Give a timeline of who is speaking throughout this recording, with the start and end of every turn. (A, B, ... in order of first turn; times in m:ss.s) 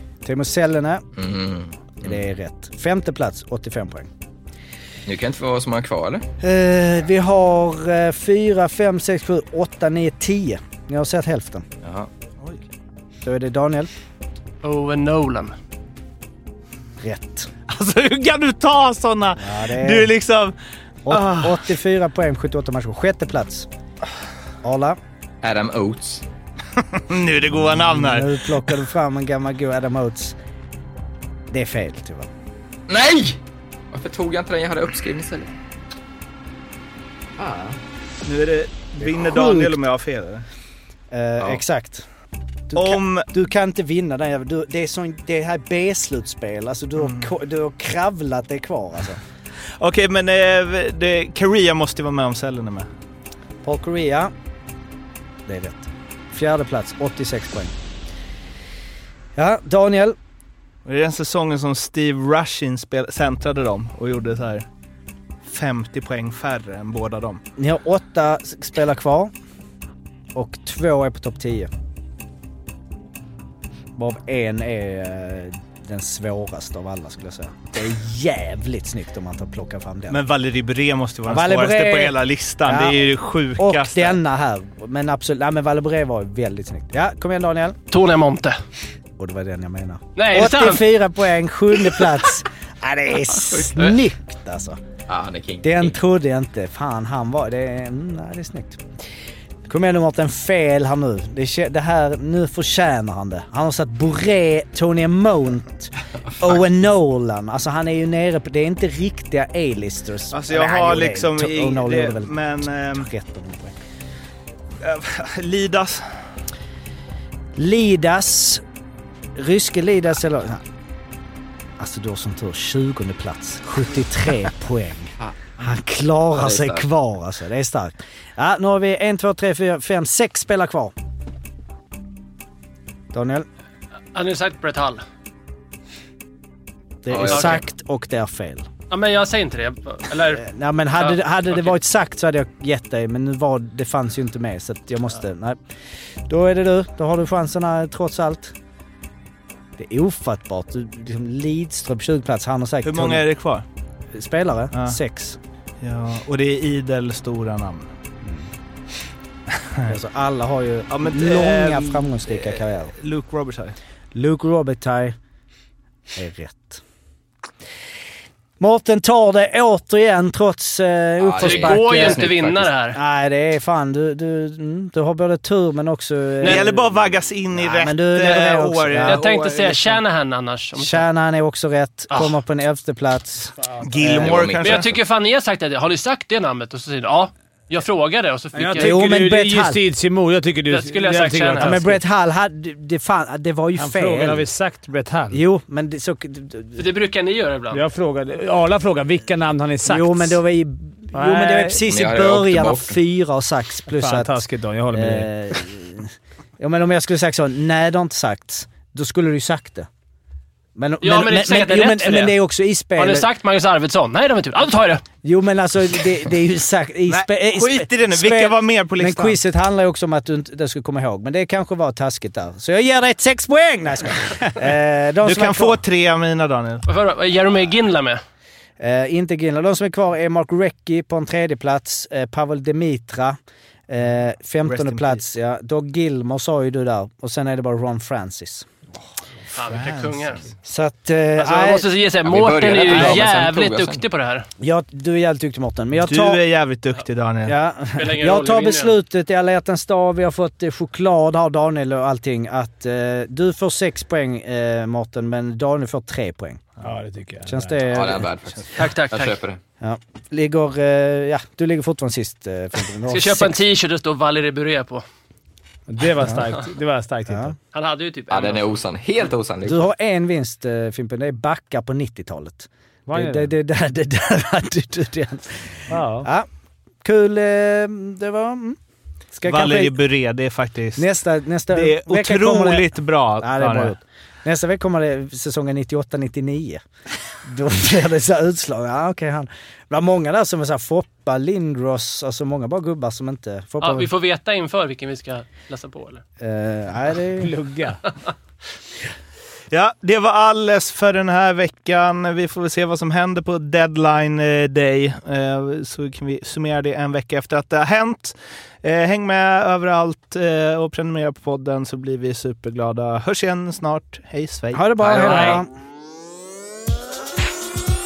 0:00.2-0:01.0 A
0:01.2-0:02.2 B
0:02.0-0:04.1 A
0:05.1-0:06.3 B
0:06.4-0:11.6 A
0:11.8-0:12.1 B
0:13.2-0:13.9 A
0:14.6-0:15.6 C
0:17.0-0:17.5 A
0:17.7-0:20.6 D
0:19.4-0:20.1 A
0:21.0-0:23.7 A
0:21.1-0:21.6 D
0:24.6-0:25.0 A
0:25.4-0:26.2 B
0:26.8-0:28.3 D
0:27.6-0:30.4 A
0:31.5-0:32.3 A
0:32.9-0:33.4 B
0:33.9-0:35.5 B
0:37.4-0:37.8 B
0:38.2-0:40.5 D
0:39.0-0:39.8 A
0:41.1-0:42.0 A
0:42.7-0:49.2 A
0:42.7-0:43.3 D
0:47.0-0:47.3 D
0:49.8-0:52.9 D
0:53.6-0:54.3 A
0:55.5-0:57.7 A
0:59.4-1:00.2 A
1:00.8-1:04.6 D
1:05.4-1:07.4 D
1:07.6-1:09.3 A
1:10.3-1:11.7 A
1:14.0-1:20.2 A
1:20.1-1:24.2 D
1:21.3-1:23.0 A
1:23.6-1:27.8 A
1:27.9-1:28.6 C
1:29.2-1:34.8 A
1:30.2-1:30.8 C
1:33.5-1:33.9 B
1:35.1-1:36.0 B
1:35.6-1:38.8 A
1:39.7-1:53.8 A
1:50.3-1:53.1 D
1:54.8-1:56.1 D
1:57.6-1:58.6 A
1:59.4-2:00.6 A
2:01.8-2:10.9 A
2:06.4-2:06.9 B
2:13.1-2:13.5 A
2:14.1-2:15.0 C
2:17.0-2:18.7 A
2:17.1-2:17.6 B
2:17.3-2:17.6 C
2:18.9-2:21.8 C
2:20.3-2:25.6 A
2:26.3-2:28.6 A
2:29.8-2:33.3 A
2:32.8-2:33.6 D
2:34.1-2:35.4 A
2:35.8-2:37.9 D
2:38.2-2:38.5 A
2:39.6-2:39.9 D
2:39.9-2:42.9 A
2:40.9-2:43.8 D
2:44.1-2:45.2 A
2:46.1-2:46.8 A
2:48.6-2:52.2 A
2:51.2-2:52.7 B
2:51.4-2:53.0 C
2:52.9-2:56.8 A
2:56.4-3:00.0 D
2:57.6-2:59.3 A
2:59.0-3:01.0 C
3:00.8-3:04.5 A
3:03.8-3:04.9 D
3:04.1-3:05.0 B
3:04.6-3:09.0 C
3:08.5-3:12.0 E
3:08.8-3:09.8 A
3:10.7-3:11.8 C
3:11.6-3:14.4 A
3:13.8-3:15.4 E
3:15.3-3:16.8 A
3:16.8-3:17.8 C
3:17.7-3:20.4 E
3:19.9-3:29.9 A
3:21.1-3:21.8 E
3:21.9-3:23.0 B
3:23.9-3:25.3 E
3:30.8-3:33.3 A
3:31.0-3:32.3 C
3:33.0-3:35.0 C
3:35.2-3:45.8 A
3:37.1-3:39.4 D
3:45.2-3:46.8 D
3:46.9-3:48.2 C
3:48.8-3:53.4 A
3:53.9-3:58.7 A
3:54.6-3:55.2 D
3:59.6-4:00.4 C
3:59.6-4:00.4 D
4:00.6-4:01.9 A
4:01.4-4:04.5 C
4:02.2-4:04.0 B
4:04.6-4:06.4 A
4:06.0-4:07.6 D
4:07.4-4:16.7 A
4:07.9-4:09.0 C
4:16.8-4:17.8 E
4:17.5-4:18.3 A
4:17.9-4:19.6 B
4:18.8-4:19.4 C
4:19.8-4:23.6 A
4:23.1-4:25.0 C
4:25.9-4:27.6 E
4:27.3-4:27.5 A
4:27.7-4:28.7 C
4:28.3-4:29.9 B
4:29.6-4:36.5 A
4:33.1-4:33.5 E
4:35.9-4:36.3 E
4:37.0-4:38.8 A
4:39.3-4:40.0 A
4:39.5-4:41.1 D
4:41.0-4:46.8 A
4:41.7-4:44.0 D
4:47.4-4:54.1 A
4:53.8-4:56.2 C
4:56.4-4:57.5 A
4:57.4-4:58.0 E
4:59.7-5:15.6 D
5:14.7-5:15.7 A
5:15.0-5:15.6 B